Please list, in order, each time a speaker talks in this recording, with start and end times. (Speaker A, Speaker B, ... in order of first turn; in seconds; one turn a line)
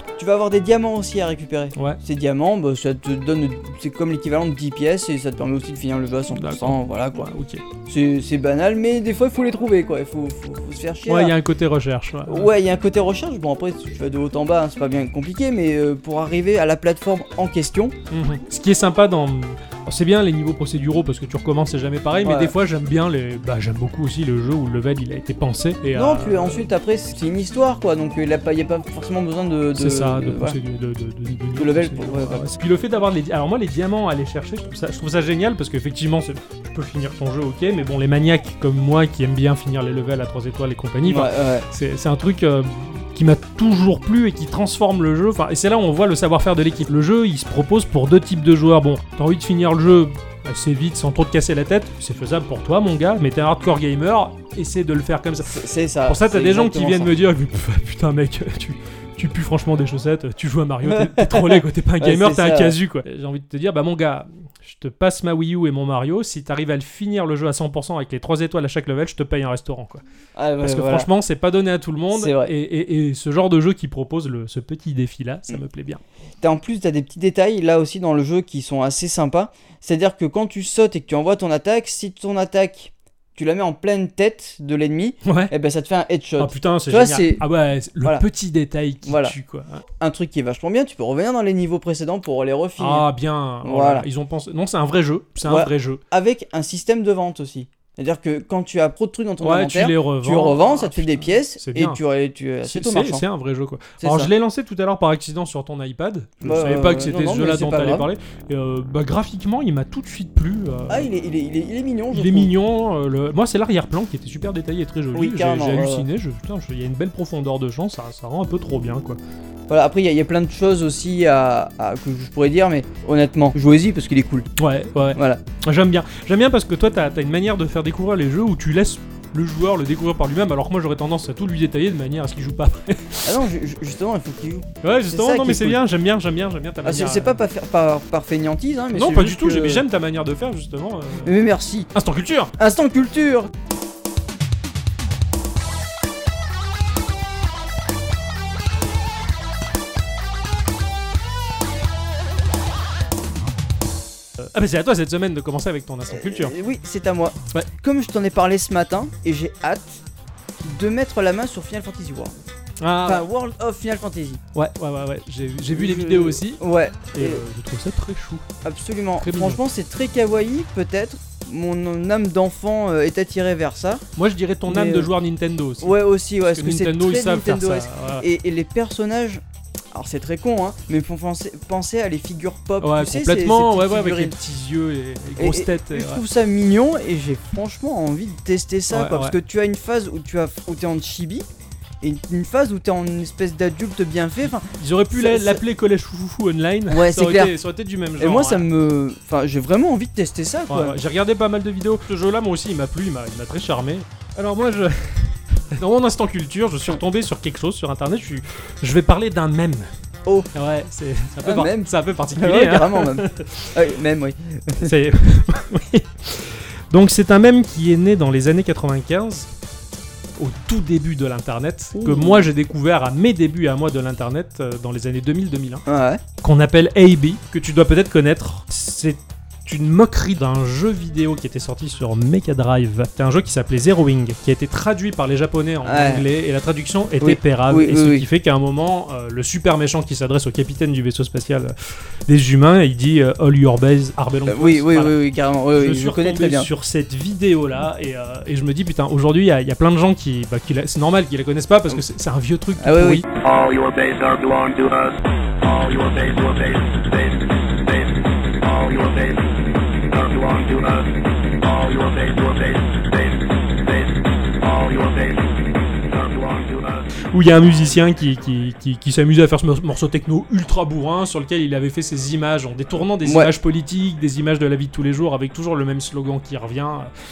Speaker A: 0.2-7.3
Speaker B: 6.3-7.6
Speaker A: 7.9-11.3
Speaker B: 11.1-12.5
Speaker A: 12.3-17.9
Speaker B: 18.1-26.7
Speaker A: 22.2-22.5
Speaker A: 25.9-30.6
Speaker B: 29.7-70.0
Speaker A: 31.6-32.5
Speaker A: 41.0-41.6
Speaker A: 55.4-57.1
Speaker A: 60.9-62.8
Speaker A: 70.3-71.1
Speaker B: 70.6-76.0
Speaker A: 72.1-72.5
Speaker A: 76.4-87.4
Speaker B: 85.2-85.5
Speaker B: 86.4-89.8
Speaker A: 89.0-89.3
Speaker A: 90.0-93.0
Speaker B: 92.8-96.0
Speaker A: 93.6-94.0
Speaker A: 95.4-103.2
Speaker B: 99.4-102.0
Speaker B: 102.7-111.1
Speaker A: 104.0-104.3
Speaker A: 106.4-108.1
Speaker A: 110.9-112.5
Speaker B: 112.1-119.2
Speaker A: 115.1-116.0
Speaker A: 119.7-124.5
Speaker B: 124.6-133.4
Speaker A: 125.1-125.4
Speaker A: 133.2-135.8
Speaker B: 134.8-137.4
Speaker A: 136.8-139.8
Speaker B: 138.9-141.3
Speaker A: 141.2-141.9
Speaker B: 141.9-142.5
Speaker A: 142.6-143.5
Speaker B: 154.4-156.5
Speaker A: 156.1-160.0
Speaker A: 160.6-162.3
Speaker B: 162.8-163.3
Speaker A: 163.0-164.4
Speaker B: 164.5-166.6
Speaker A: 165.7-167.4
Speaker B: 167.1-168.4
Speaker A: 168.6-174.0
Speaker B: 169.2-169.6
Speaker B: 174.2-178.2
Speaker A: 174.7-175.1
Speaker A: 175.8-179.4
Speaker A: 179.9-184.3
Speaker B: 182.8-186.2
Speaker A: 185.4-191.4
Speaker B: 188.9-189.3
Speaker A: 192.0-195.6
Speaker B: 194.7-198.7
Speaker A: 196.9-197.5
Speaker A: 198.2-200.9
Speaker B: 200.7-209.9
Speaker B: 210.5-213.7
Speaker A: 211.4-214.9
Speaker B: 214.8-219.5
Speaker B: 220.4-225.8
Speaker A: 221.9-222.5
Speaker A: 225.8-226.2
Speaker B: 226.4-241.7
Speaker A: 235.8-236.2
Speaker A: 237.2-238.2
Speaker B: 242.3-245.2
Speaker A: 244.5-246.7
Speaker B: 245.7-253.2
Speaker A: 252.8-253.2
Speaker C: 253.4-267.2
Speaker B: 267.2-277.1
Speaker A: 273.2-273.5